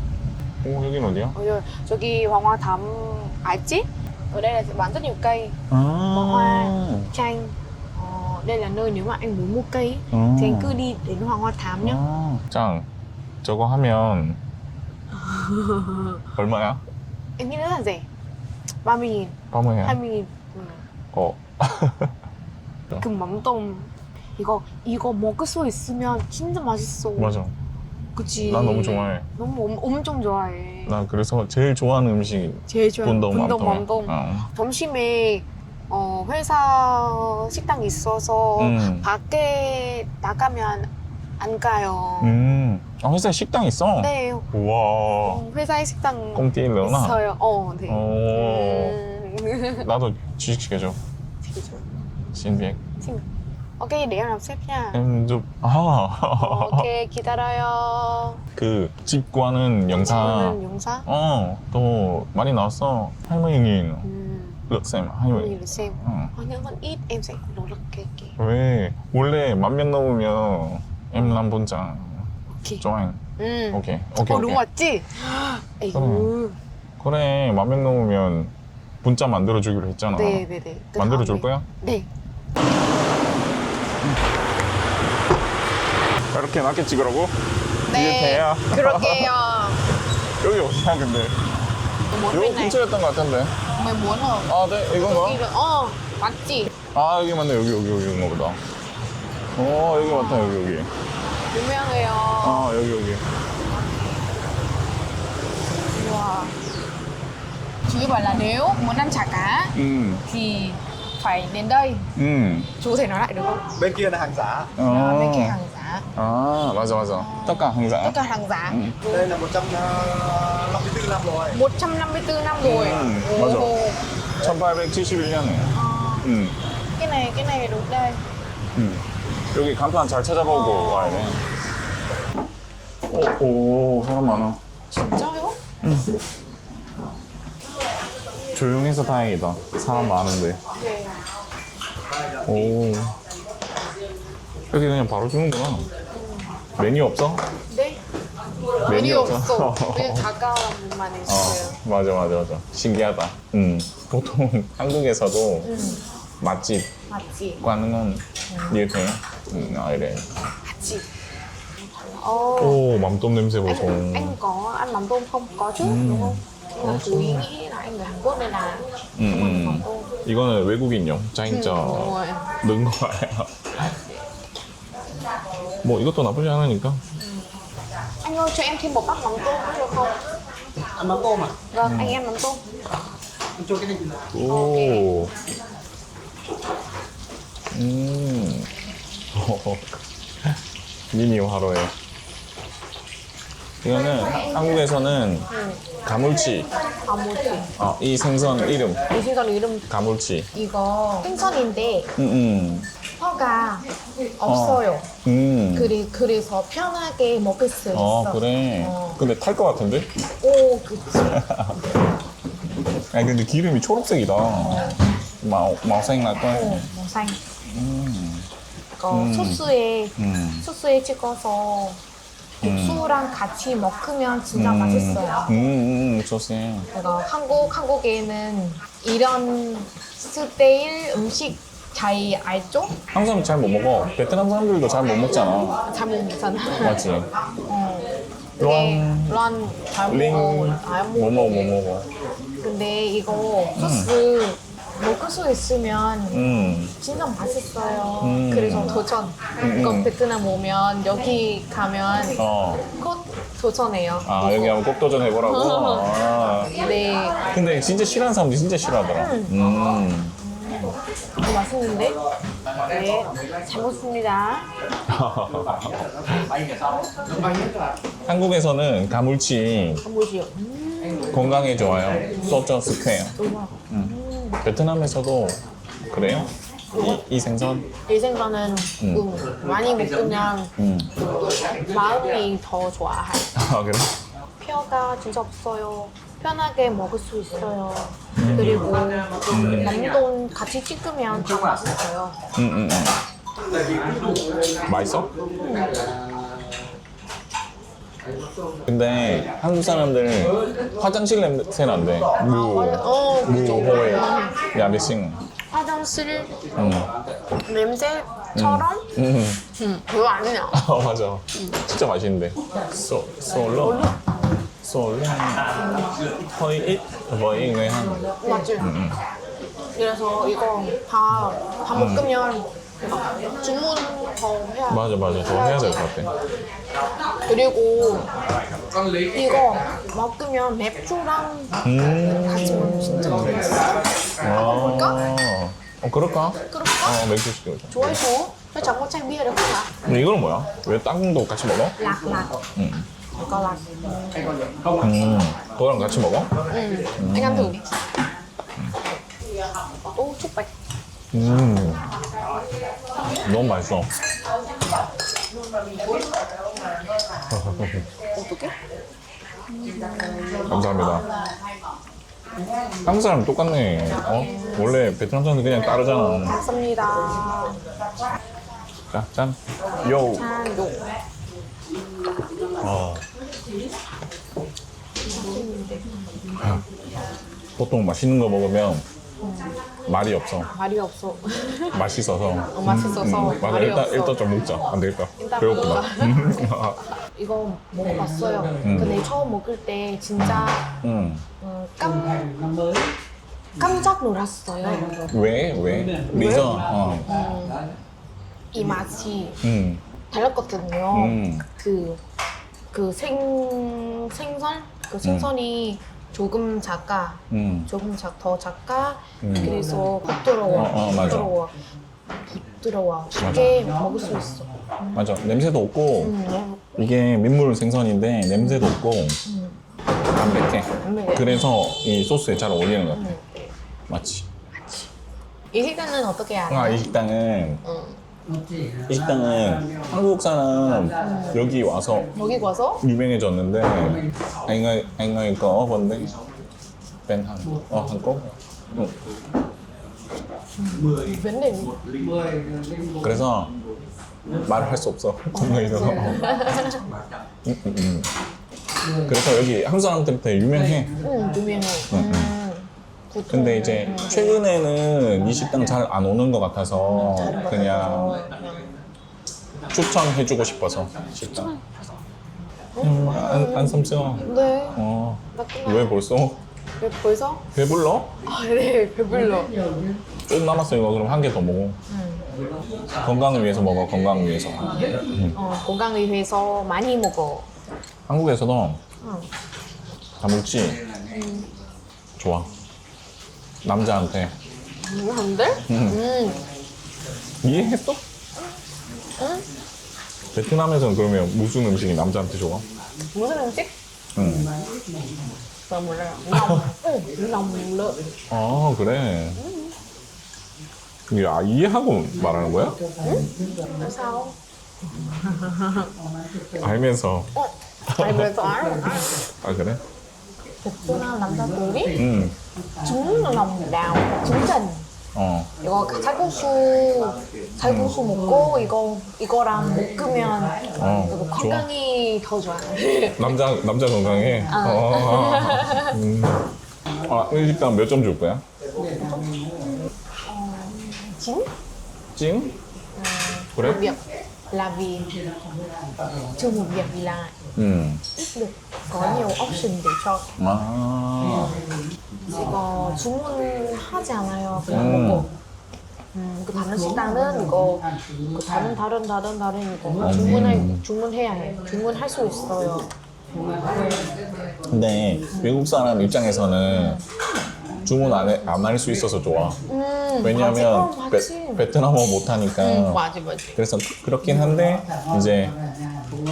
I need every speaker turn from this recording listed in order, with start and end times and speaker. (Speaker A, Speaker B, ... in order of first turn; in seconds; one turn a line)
Speaker A: 0.6-1.3
Speaker B: 1.3-5.5
Speaker A: 5.7-7.1
Speaker B: 6.1-12.0
Speaker A: 10.1-10.8
Speaker A: 11.8-12.9
Speaker A: 13.4-14.4
Speaker B: 15.2-16.1
Speaker A: 16.3-16.8
Speaker B: 17.4-18.1
Speaker B: 18.8-20.8
Speaker A: 19.5-20.0
Speaker A: 21.1-22.1
Speaker B: 23.0-27.4
Speaker A: 27.1-27.5
Speaker B: 28.1-31.0
Speaker A: 28.4-29.2
Speaker A: 30.9-34.5
Speaker B: 32.7-42.5
Speaker A: 38.6-39.1
Speaker A: 42.2-45.4
Speaker B: 44.0-44.5
Speaker B: 45.2-49.9
Speaker A: 46.3-47.2
Speaker A: 47.9-49.0
Speaker A: 49.8-51.0
Speaker B: 51.5-51.8
Speaker A: 52.3-52.8
Speaker B: 53.0-53.2
Speaker B: 53.8-55.0
Speaker A: 54.9-56.9
Speaker B: 56.4-58.4
Speaker A: 58.5-64.1
Speaker B: 59.9-61.1
Speaker B: 64.0-64.6
Speaker A: 64.7-66.3
Speaker B: 65.3-68.3
Speaker A: 68.4-73.2
Speaker B: 71.2-71.4
Speaker B: 73.4-76.6
Speaker A: 73.7-74.6
Speaker A: 75.9-76.3
Speaker A: 77.0-80.4
Speaker B: 80.1-82.1
Speaker A: 81.0-81.7
Speaker A: 86.3-87.3
Speaker A: 87.9-89.3
Speaker B: 87.9-89.8
Speaker A: 90.4-91.5
Speaker B: 92.1-92.8
Speaker A: 92.3-93.5
Speaker B: 93.7-96.7
Speaker A: 94.5-95.4
Speaker A: 96.9-98.6
Speaker A: 99.5-100.9
Speaker B: 99.9-100.6
Speaker B: 101.5-102.7
Speaker A: 102.4-103.2
Speaker B: 105.9-106.6
Speaker B: 107.8-112.1
Speaker A: 109.7-110.2
Speaker A: 112.2-112.7
Speaker B: 112.8-113.8
Speaker C: 113.8-114.7
Speaker A: 114.8-115.6
Speaker B: 114.8-116.1
Speaker A: 116.2-118.2
Speaker B: 117.0-119.3
Speaker A: 118.7-119.0
Speaker C: 119.3-121.4
Speaker B: 121.5-124.0
Speaker A: 122.6-123.8
Speaker A: 124.4-126.5
Speaker B: 125.7-126.3
Speaker B: 127.0-128.2
Speaker A: 128.7-131.4
Speaker B: 130.4-131.4
Speaker A: 133.1-134.6
Speaker B: 134.9-135.6
Speaker A: 135.8-136.1
Speaker A: 138.5-140.6
Speaker B: 140.7-141.2
Speaker A: 142.4-143.1
Speaker A: 144.7-145.9
Speaker B: 146.1-146.5
Speaker A: 146.8-147.4
Speaker B: 147.7-148.0
Speaker A: 148.8-150.2
Speaker B: 148.8-151.8
Speaker A: 151.3-155.7
Speaker B: 155.6-156.0
Speaker A: 156.4-156.9
Speaker B: 157.1-157.6
Speaker A: 157.6-160.3
Speaker B: 158.5-158.8
Speaker B: 159.5-159.8
Speaker B: 160.6-161.1
Speaker B: 162.0-162.8
Speaker A: 162.6-164.4
Speaker B: 163.6-170.2
Speaker A: 165.8-167.5
Speaker A: 169.2-173.7
Speaker B: 171.5-172.5
Speaker A: 175.8-177.0
Speaker B: 178.2-180.2
Speaker B: 181.6-182.6
Speaker A: 181.8-182.2
Speaker A: 184.3-185.3
Speaker B: 184.5-185.1
Speaker A: 187.7-188.7
Speaker A: 189.3-190.6
Speaker A: 191.1-191.9
Speaker A: 193.8-195.5
Speaker B: 195.5-195.8
Speaker A: 196.0-196.7
Speaker B: 197.0-197.7
Speaker A: 197.8-199.0
Speaker B: 199.1-199.8
Speaker A: 199.9-200.5
Speaker B: 200.5-202.1
Speaker A: 202.2-202.9
Speaker B: 203.2-203.9
Speaker B: 204.4-205.1
Speaker A: 204.4-205.9
Speaker B: 205.7-209.2
Speaker A: 207.9-210.1
Speaker B: 210.4-211.4
Speaker A: 211.3-211.8
Speaker A: 213.1-216.8
Speaker B: 214.6-215.0
Speaker B: 216.5-217.4
Speaker A: 217.7-218.5
Speaker B: 218.9-222.0
Speaker A: 219.1-219.7
Speaker A: 220.2-220.7
Speaker B: 222.6-225.5
Speaker A: 222.6-223.0
Speaker A: 224.5-226.9
Speaker B: 226.9-232.9
Speaker A: 233.1-235.8
Speaker B: 235.6-237.0
Speaker A: 236.8-237.3
Speaker B: 237.7-241.8
Speaker A: 238.6-239.4
Speaker A: 240.0-242.1
Speaker B: 242.6-252.4
Speaker A: 243.8-244.1
Speaker A: 246.3-246.9
Speaker A: 248.2-249.0
Speaker A: 249.6-250.1
Speaker A: 252.4-252.8
Speaker B: 252.9-254.8
Speaker A: 254.2-256.7
Speaker B: 255.4-256.1
Speaker B: 256.8-257.4
Speaker A: 257.5-260.3
Speaker B: 259.1-259.5
Speaker B: 260.4-262.2
Speaker B: 262.8-264.7
Speaker A: 265.1-266.5
Speaker A: 268.2-270.0
Speaker B: 270.0-271.5
Speaker A: 271.3-273.3
Speaker B: 272.3-272.6
Speaker B: 273.4-274.6
Speaker A: 274.6-275.6
Speaker A: 276.1-277.8
Speaker B: 276.9-277.2
Speaker B: 278.1-280.7
Speaker A: 279.0-279.3
Speaker A: 280.8-281.1
Speaker B: 281.8-283.5
Speaker A: 283.5-284.1
Speaker B: 284.6-292.4
Speaker A: 288.4-288.9
Speaker A: 289.5-289.9
Speaker A: 292.6-293.2
Speaker A: 294.8-295.3
Speaker A: 298.9-305.4
Speaker B: 302.4-304.6
Speaker B: 305.7-306.6
Speaker A: 306.8-307.1
Speaker B: 307.6-309.1
Speaker A: 308.5-309.6
Speaker B: 309.8-310.8
Speaker A: 310.7-314.2
Speaker B: 311.5-311.8
Speaker B: 313.7-314.4
Speaker A: 314.8-315.8
Speaker A: 316.5-319.2
Speaker B: 318.4-318.9
Speaker B: 319.9-326.0
Speaker A: 321.9-322.3
Speaker A: 324.9-326.3
Speaker B: 327.5-328.3
Speaker B: 329.3-335.2
Speaker A: 331.8-333.7
Speaker A: 334.4-338.2
Speaker B: 336.7-337.2
Speaker B: 337.9-339.9
Speaker A: 340.0-342.0
Speaker B: 342.0-342.6
Speaker A: 342.8-343.1
Speaker B: 343.3-344.6
Speaker A: 345.0-346.5
Speaker B: 346.7-347.9
Speaker A: 347.2-347.7
Speaker B: 350.1-350.7
Speaker A: 351.3-352.1
Speaker A: 353.4-354.1
Speaker A: 357.5-358.0
Speaker B: 357.8-358.7
Speaker B: 359.7-360.8
Speaker A: 360.6-361.2
Speaker A: 363.0-366.6
Speaker B: 364.4-364.8
Speaker B: 365.8-367.8
Speaker A: 369.1-370.4
Speaker B: 370.3-371.0
Speaker A: 372.8-373.2
Speaker B: 375.2-376.1
Speaker A: 376.6-376.8
Speaker A: 377.8-379.0
Speaker B: 379.4-379.8
Speaker A: 380.0-380.7
Speaker B: 380.7-382.0
Speaker A: 381.9-387.0
Speaker B: 382.7-384.5
Speaker B: 385.4-390.9
Speaker A: 388.8-389.1
Speaker A: 390.4-391.4
Speaker B: 391.6-392.5
Speaker B: 393.8-395.1
Speaker A: 395.3-397.3
Speaker B: 396.3-397.8
Speaker B: 398.7-399.6
Speaker A: 399.6-400.0
Speaker B: 400.3-402.2
Speaker A: 401.1-401.6
Speaker B: 402.9-411.7
Speaker A: 405.2-405.5
Speaker A: 407.5-407.9
Speaker A: 409.4-409.8
Speaker A: 410.7-411.5
Speaker B: 412.6-415.2
Speaker A: 413.4-413.7
Speaker A: 415.1-416.3
Speaker B: 416.2-417.0
Speaker A: 417.0-419.4
Speaker B: 418.6-418.8
Speaker B: 419.4-419.8
Speaker A: 420.3-423.2
Speaker B: 420.9-421.7
Speaker B: 423.1-423.7
Speaker A: 424.1-424.5
Speaker B: 424.7-425.1
Speaker B: 425.7-427.1
Speaker A: 426.7-427.8
Speaker B: 427.8-428.2
Speaker A: 429.1-432.3
Speaker B: 431.2-431.6
Speaker B: 432.3-433.0
Speaker A: 433.0-436.4
Speaker A: 437.3-439.1
Speaker B: 440.8-442.0
Speaker A: 443.2-443.7
Speaker A: 444.6-446.4
Speaker B: 445.5-447.0
Speaker A: 447.6-448.3
Speaker A: 449.2-451.1
Speaker B: 451.2-454.6
Speaker A: 452.1-452.5
Speaker A: 453.5-458.4
Speaker B: 456.9-458.9
Speaker A: 459.9-461.7
Speaker B: 461.4-462.1
Speaker B: 463.0-465.0
Speaker A: 463.0-464.4
Speaker A: 464.9-466.6
Speaker B: 465.5-466.2
Speaker B: 467.0-467.6
Speaker A: 467.7-468.3
Speaker B: 468.4-469.7
Speaker A: 470.5-472.0
Speaker B: 472.1-472.5
Speaker A: 473.2-475.6
Speaker B: 474.8-477.7
Speaker A: 478.3-479.0
Speaker B: 479.2-479.5
Speaker A: 480.4-481.0
Speaker B: 481.3-481.7
Speaker A: 482.4-482.7
Speaker A: 483.8-484.5
Speaker B: 485.0-486.6
Speaker A: 485.9-486.2
Speaker A: 487.6-488.2
Speaker B: 489.4-489.6
Speaker A: 490.5-492.9
Speaker B: 493.3-493.9
Speaker A: 494.3-494.7
Speaker B: 495.9-498.2
Speaker A: 498.5-499.6
Speaker B: 499.6-499.9
Speaker A: 501.3-503.0
Speaker B: 503.2-504.6
Speaker B: 505.2-506.1
Speaker A: 506.8-507.5
Speaker B: 507.5-509.4
Speaker A: 508.1-508.5
Speaker A: 509.2-510.0
Speaker B: 510.8-512.2
Speaker A: 512.1-512.5
Speaker B: 513.0-515.1
Speaker A: 515.3-515.7
Speaker B: 515.8-523.6
Speaker A: 517.8-518.1
Speaker A: 520.9-521.9
Speaker A: 523.4-526.6
Speaker B: 524.7-526.1
Speaker A: 527.2-528.6
Speaker B: 529.1-531.7
Speaker A: 532.3-532.7
Speaker B: 533.1-535.3
Speaker A: 533.7-534.1
Speaker B: 536.5-537.5
Speaker A: 537.8-538.2
Speaker B: 538.3-540.5
Speaker A: 540.6-541.8
Speaker B: 541.5-541.8
Speaker B: 542.5-545.5
Speaker A: 544.9-545.5
Speaker B: 546.3-553.1
Speaker A: 550.2-551.0
Speaker A: 554.9-557.2
Speaker B: 555.5-555.8
Speaker B: 556.9-557.2
Speaker A: 558.0-559.8
Speaker B: 559.9-561.9
Speaker A: 560.4-563.2
Speaker B: 562.8-563.8
Speaker A: 563.8-565.8